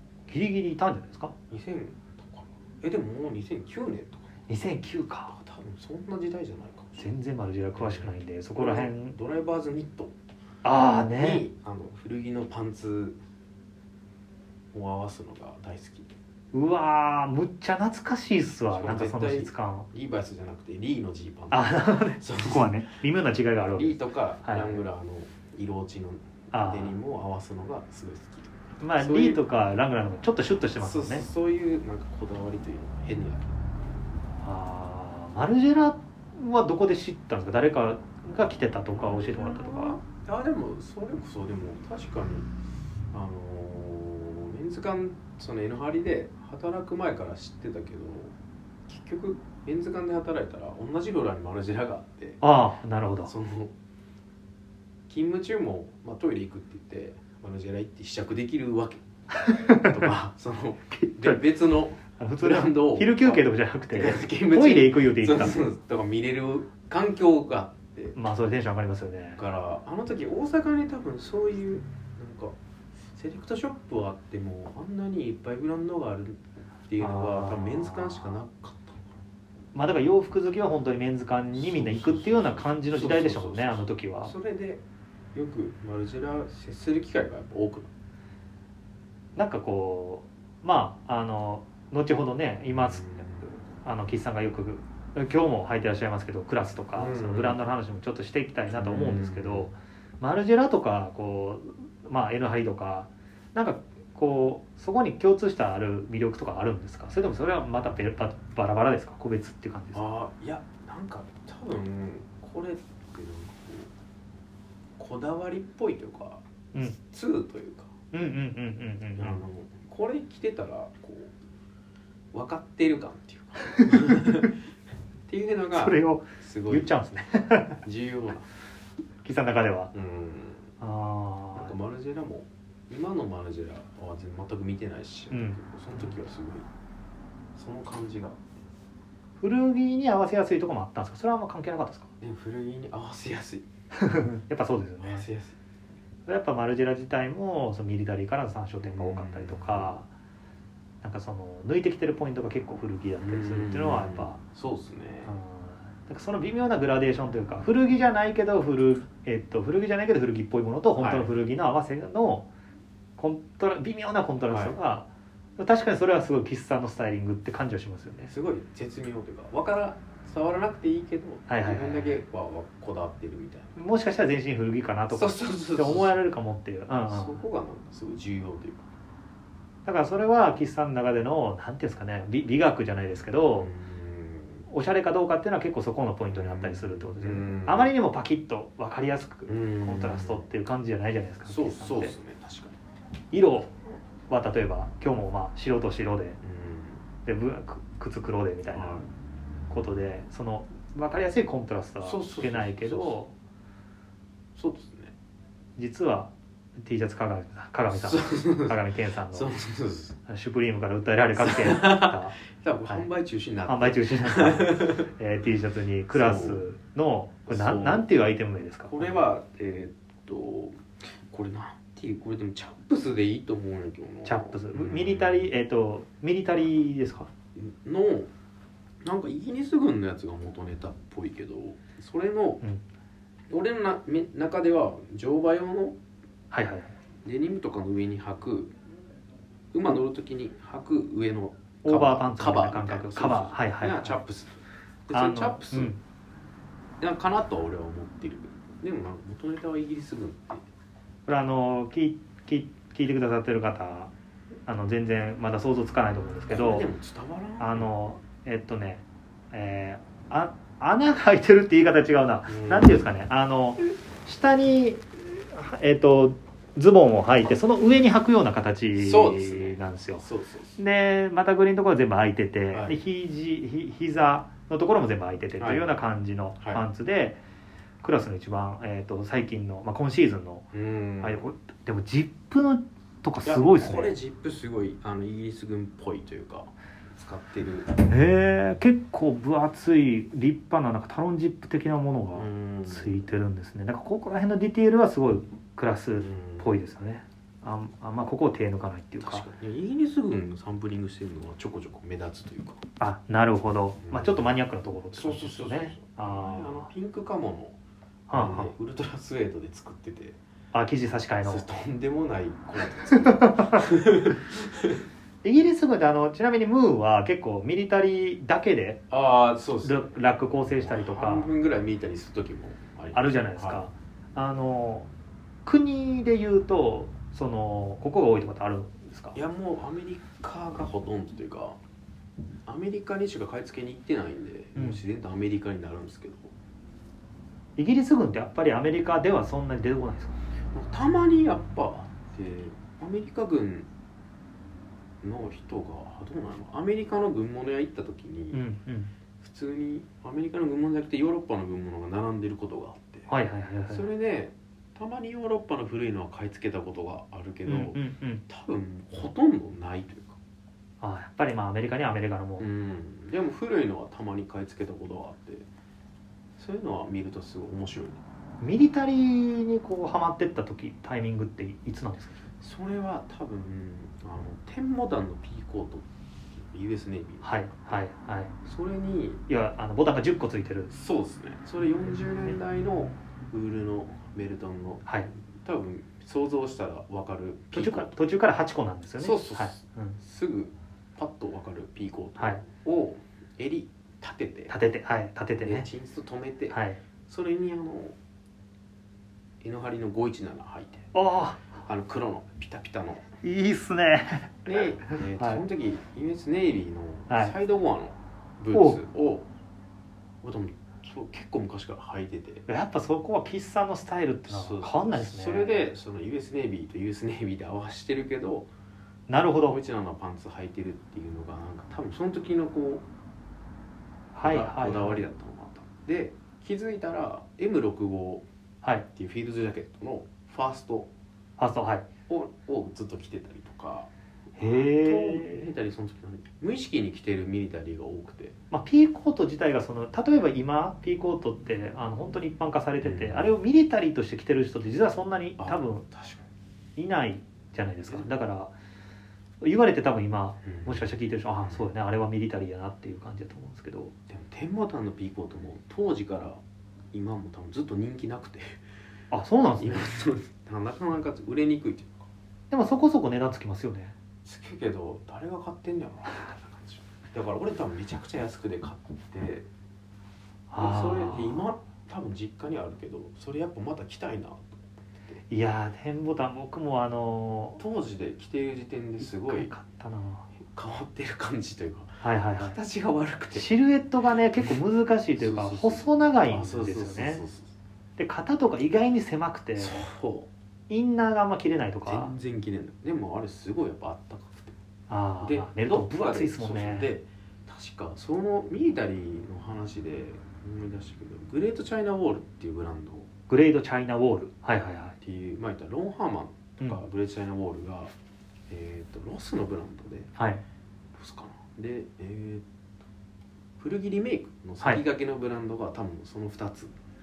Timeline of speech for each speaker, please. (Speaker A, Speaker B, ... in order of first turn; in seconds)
Speaker A: 0.3-1.3, 4.5-5.3, 7.0-9.2, 10.6-11.4, 16.5-19.9, 21.5-24.8, 26.5-26.9, 28.8-31.2, 34.4-40.0, 52.4-53.3, 59.4-60.1, 60.9-61.4, 62.2-65.6, 68.1-69.4, 77.0-78.4, 79.7-84.3, 89.3-110.0, 118.1-119.4, 125.7-127.8, 129.2-129.9, 130.8-131.7, 135.3-136.1, 139.4-142.1, 143.9-145.3, 146.3-150.1, 151.0-154.4, 155.2-162.5, 163.2-165.1, 165.6-168.3, 171.5-172.2, 173.8-177.4, 179.8-183.7, 184.7-192.1, 193.3-193.7, 194.3-196.4, 197.2-199.0, 199.7-203.3, 205.8-209.5, 210.3-212.4, 213.7-219.2, 224.2-227.3, 236.5-236.9, 241.8-244.2, 245.1-246.0, 251.3-254.1, 254.7-256.9, 257.6-270.2, 270.8-277.4, 278.0-280.7, 281.2-284.1, 288.1-299.4, 303.0-306.9, 308.3-308.7, 310.7-311.6, 313.4-313.8, 315.4-319.0, 319.8-321.5, 323.1-325.1, 325.6-329.4, 337.8-340.4, 348.5-349.1, 353.3-354.1, 357.6-358.4, 361.0-362.7, 368.6-372.4, 377.4-378.5, 379.5-380.9, 387.7-390.2, 394.7-395.9, 396.7-397.0, 401.1-401.7, 403.4-405.6, 407.3-407.5, 408.7-409.0, 412.7-415.9, 419.3-419.8, 424.3-425.2, 431.6-432.1, 434.6-435.7, 438.7-446.1, 447.0-448.7, 449.6-454.1, 459.3-460.1, 462.7-464.1, 470.7-471.6, 475.5-477.8, 479.2-480.4, 482.2-482.8, 483.5-487.4, 488.2-490.1, 490.9-492.3, 495.1-497.1, 503.5-505.1
Speaker B: 1.5-4.3, 5.3-7.0, 7.8-10.1, 11.2-13.2, 14.7-16.1, 18.7-22.8, 23.7-29.4, 30.8-33.6, 38.9-42.5, 43.1-48.3, 48.9-52.4, 53.2-53.7, 55.1-68.1, 69.3-72.5, 73.1-79.2, 81.5-84.8, 85.3-87.9, 92.7-93.5, 96.9-97.6, 98.7-99.7, 109.9-113.9, 115.0-118.0, 119.2-121.3, 122.3-124.5, 125.3-126.9, 127.8-128.5, 129.9-130.7, 131.5-136.7, 137.5-138.5, 142.2-143.7, 145.0-145.6, 148.8-150.0, 153.2-155.3, 160.9-161.3, 164.5-164.8, 168.3-173.8, 175.1-176.2, 177.1-178.8, 183.6-184.6, 186.3-187.9, 189.5-190.4, 191.5-192.8, 196.4-197.0, 198.7-199.1, 202.0-203.2, 204.5-205.1, 207.9-208.8, 209.3-210.2, 211.4-215.1, 216.1-216.6, 217.5-218.2, 218.9-225.5, 227.6-228.3, 229.0-232.6, 233.5-236.0, 237.2-238.7, 239.7-245.9, 247.0-250.6, 256.5-257.9, 262.5-263.0, 268.9-270.8, 272.7-273.0, 275.6-275.9, 280.7-281.5, 283.4-287.9, 292.3-293.2, 296.1-296.7, 299.2-302.8, 304.0-304.5, 305.1-307.8, 308.3-310.4, 311.4-315.0, 319.1-320.2, 320.8-323.9, 329.3-331.8, 332.6-336.5, 340.7-343.9, 345.2-348.6, 349.4-353.3, 353.9-360.4, 362.6-365.7, 366.6-368.2, 372.6-378.0, 378.6-379.4, 380.9-388.1, 389.2-394.7, 395.6-398.1, 399.6-401.1, 401.8-403.3, 404.6-409.5, 410.4-412.6, 414.5-418.7, 419.6-423.1, 424.4-428.4, 429.1-431.1, 432.3-438.6, 443.0-443.5, 445.6-446.4, 450.6-451.1, 451.6-451.9, 454.3-456.6, 457.1-458.8, 459.8-462.3, 464.4-469.6, 470.8-475.4, 477.8-479.7, 480.6-483.7, 485.4-487.7, 489.8-490.5, 492.1-494.8, 495.4-503.3, 505.2-508.1, 508.7-510.3, 511.1-512.6, 513.8-516.9